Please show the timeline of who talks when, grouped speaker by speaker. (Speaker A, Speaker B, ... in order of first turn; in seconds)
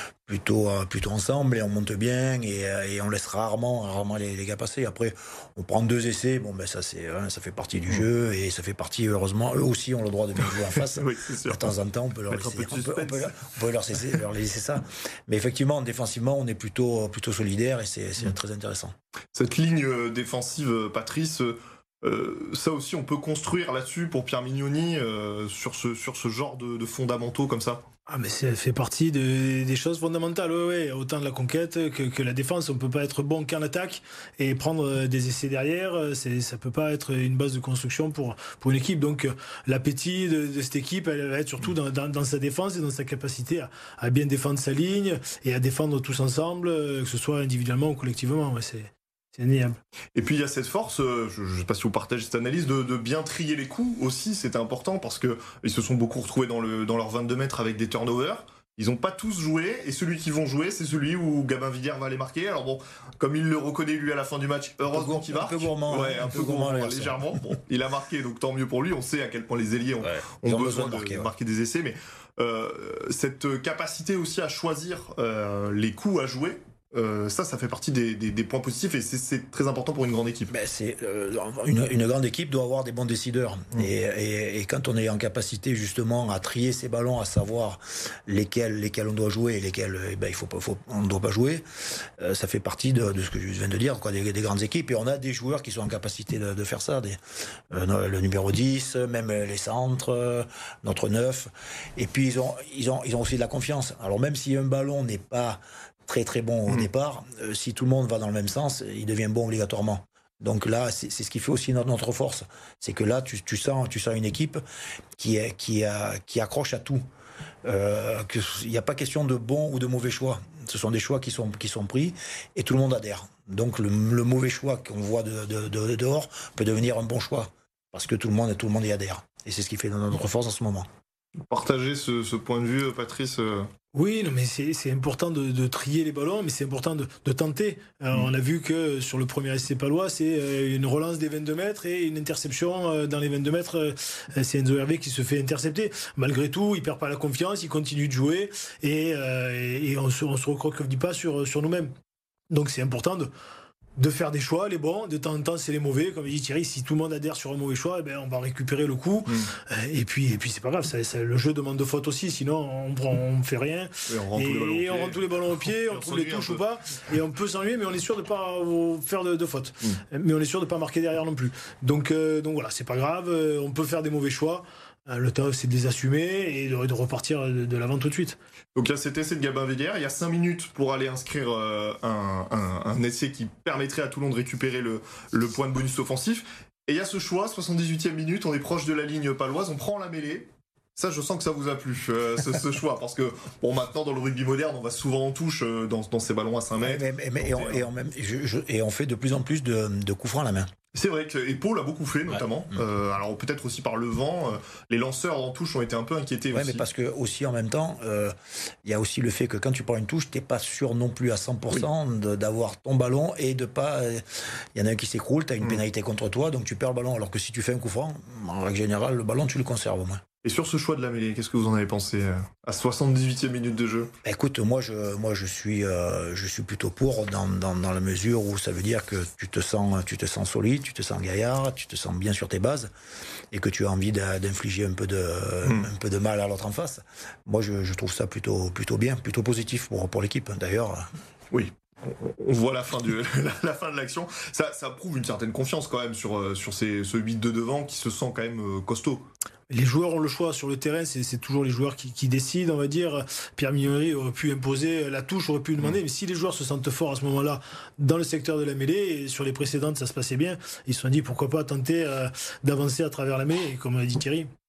Speaker A: 0.3-18.9, 64.9-67.3, 70.0-71.3, 80.5-114.6, 115.2-117.0, 117.6-130.9, 196.8-200.7, 206.5-220.2, 224.2-232.9, 233.5-241.1
Speaker B: 10.4-11.7, 12.3-14.1, 19.3-27.8, 50.1-80.5, 131.5-133.7, 164.1-166.6, 178.8-197.9, 200.9-206.8, 220.4-224.1, 241.5-249.2
Speaker C: 28.1-49.8, 133.9-151.9, 152.5-153.3, 154.0-178.4, 249.7-264.5